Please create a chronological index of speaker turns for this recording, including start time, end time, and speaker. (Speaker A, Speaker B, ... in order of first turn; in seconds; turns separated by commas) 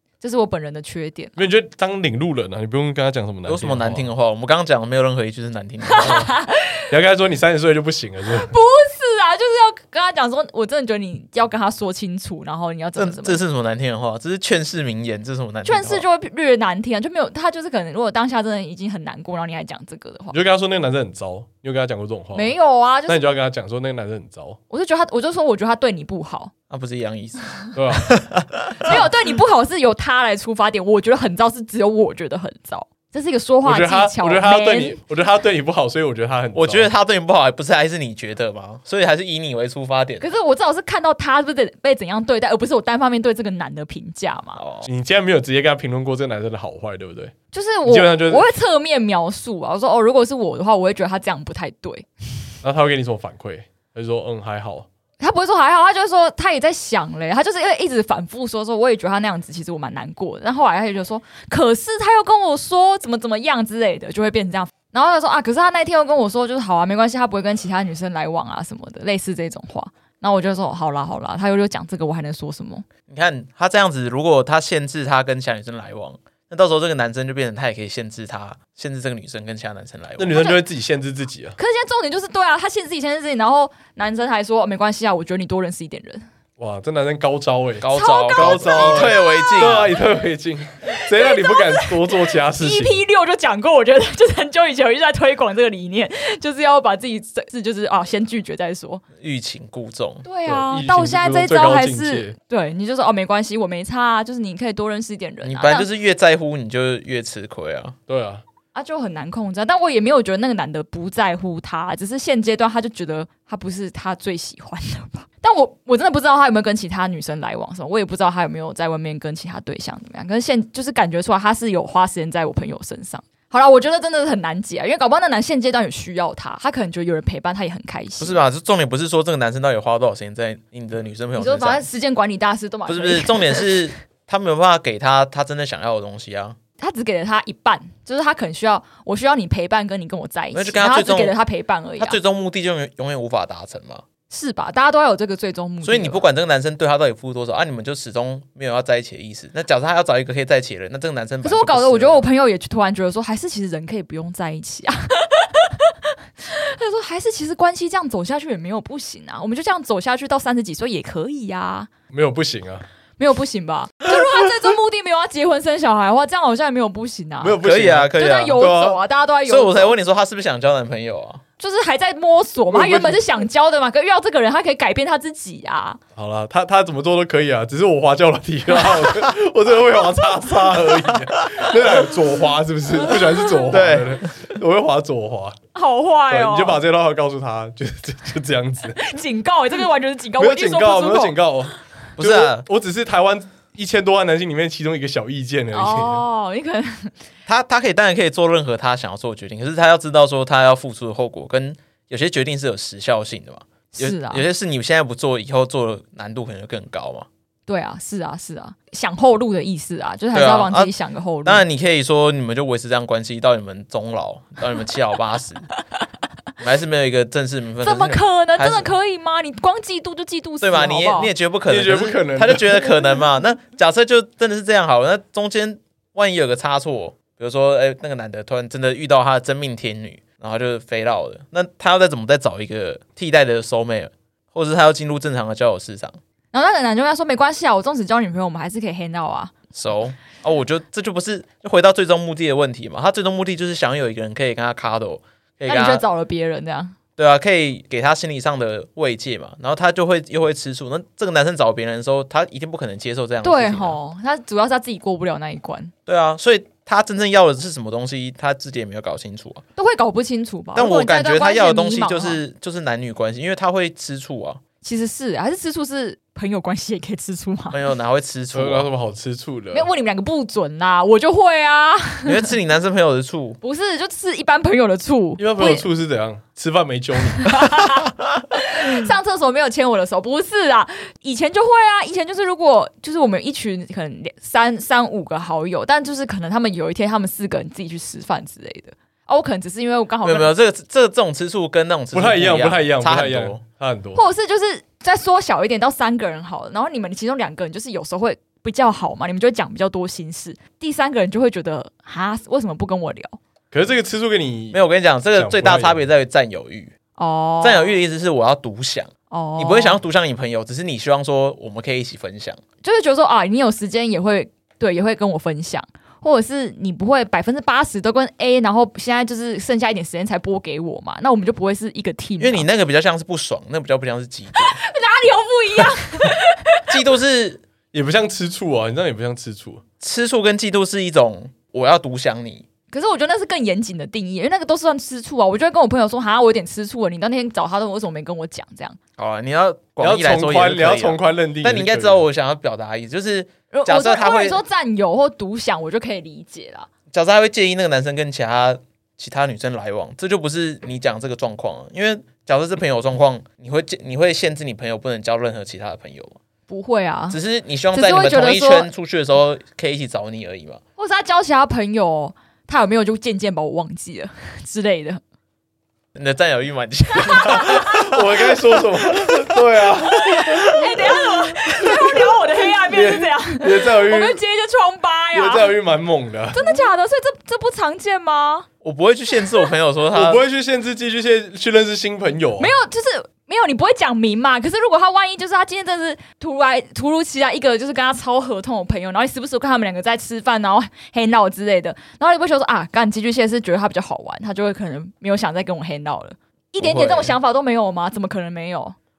Speaker A: 0.2-1.4, Speaker B: 1.4-4.1, Speaker C: 3.5-6.3, Speaker A: 5.9-6.8, Speaker B: 6.9-8.5, Speaker A: 8.3-13.4, Speaker C: 13.0-16.1, Speaker A: 15.6-20.4, Speaker B: 20.3-22.5, Speaker A: 22.3-23.2, Speaker B: 23.1-24.6, Speaker A: 24.7-26.5, Speaker C: 26.7-29.1, Speaker B: 27.7-28.1, Speaker A: 28.8-35.0, Speaker B: 33.6-36.9, Speaker C: 36.5-40.3, Speaker A: 40.2-44.6, Speaker C: 44.6-44.9, Speaker B: 44.9-47.3, Speaker A: 47.5-52.5, Speaker B: 47.9-48.5, Speaker B: 52.6-54.9, Speaker A: 55.2-72.9, Speaker C: 73.1-80.5, Speaker B: 80.2-81.6, Speaker A: 80.3-80.6, Speaker A: 81.6-86.3, Speaker B: 86.6-93.0, Speaker C: 87.8-89.9, Speaker A: 87.9-89.9, Speaker A: 91.1-91.9, Speaker A: 92.6-99.0, Speaker C: 99.2-100.2, Speaker A: 100.2-105.9, Speaker B: 100.5-102.3, Speaker C: 105.4-108.0, Speaker B: 108.1-108.4, Speaker A: 108.7-128.4, Speaker C: 128.2-131.8, Speaker A: 131.4-133.7, Speaker C: 132.9-136.6, Speaker A: 136.8-142.2, Speaker C: 140.5-141.4, Speaker C: 142.0-144.0, Speaker A: 144.3-146.2, Speaker C: 145.8-152.2, Speaker A: 151.4-161.9, Speaker B: 162.1-162.9, Speaker A: 163.2-170.0, Speaker B: 167.4-169.0, Speaker C: 167.6-168.7, Speaker C: 169.5-171.4, Speaker A: 171.6-176.0, Speaker B: 172.7-173.2, Speaker B: 176.2-185.6, Speaker A: 178.7-179.2, Speaker A: 180.3-180.8, Speaker A: 183.1-183.7, Speaker C: 183.7-184.2, Speaker A: 185.7-186.8, Speaker B: 186.3-189.0, Speaker A: 189.0-191.3, Speaker B: 190.4-196.2, Speaker C: 192.2-192.7, Speaker A: 195.7-197.1, Speaker C: 197.5-207.3, Speaker A: 203.9-204.5, Speaker A: 207.7-211.6, Speaker C: 210.3-210.9, Speaker C: 211.4-215.7, Speaker C: 216.6-218.9, Speaker A: 217.8-221.3, Speaker C: 220.6-236.2, Speaker B: 221.7-222.8, Speaker A: 236.5-239.5, Speaker C: 239.7-246.0, Speaker A: 245.7-246.9, Speaker C: 247.2-254.0, Speaker A: 253.4-255.9, Speaker C: 256.1-259.6, Speaker A: 259.8-262.4, Speaker C: 260.8-264.6, Speaker A: 264.8-267.8, Speaker C: 267.7-268.9, Speaker B: 268.5-269.9, Speaker A: 269.7-272.4, Speaker C: 272.3-273.6, Speaker A: 273.6-275.9, Speaker B: 275.4-277.8, Speaker A: 277.4-290.5, Speaker C: 290.2-293.6, Speaker B: 292.1-294.2, Speaker A: 294.1-303.4, Speaker B: 303.7-304.8, Speaker C: 304.7-306.9, Speaker B: 305.4-306.1, Speaker A: 307.2-308.0, Speaker C: 307.6-312.6, Speaker A: 309.3-310.0, Speaker A: 312.8-322.7, Speaker C: 322.4-324.8, Speaker A: 324.6-326.9, Speaker C: 326.9-327.6, Speaker B: 327.9-329.8, Speaker C: 330.0-332.7, Speaker A: 332.9-339.0, Speaker C: 339.2-344.6, Speaker B: 340.0-342.2, Speaker A: 343.7-346.9, Speaker C: 347.1-356.4, Speaker A: 356.7-357.4, Speaker C: 357.3-360.8, Speaker A: 357.9-358.9, Speaker A: 361.0-365.2, Speaker C: 366.1-368.5, Speaker A: 367.1-368.2, Speaker B: 367.6-371.2, Speaker C: 369.1-369.6, Speaker A: 370.1-375.8, Speaker B: 371.8-372.2, Speaker B: 372.8-374.4, Speaker B: 375.3-376.6, Speaker A: 376.5-378.7, Speaker C: 378.8-380.4, Speaker B: 380.1-382.7, Speaker A: 382.6-399.0, Speaker C: 396.8-397.4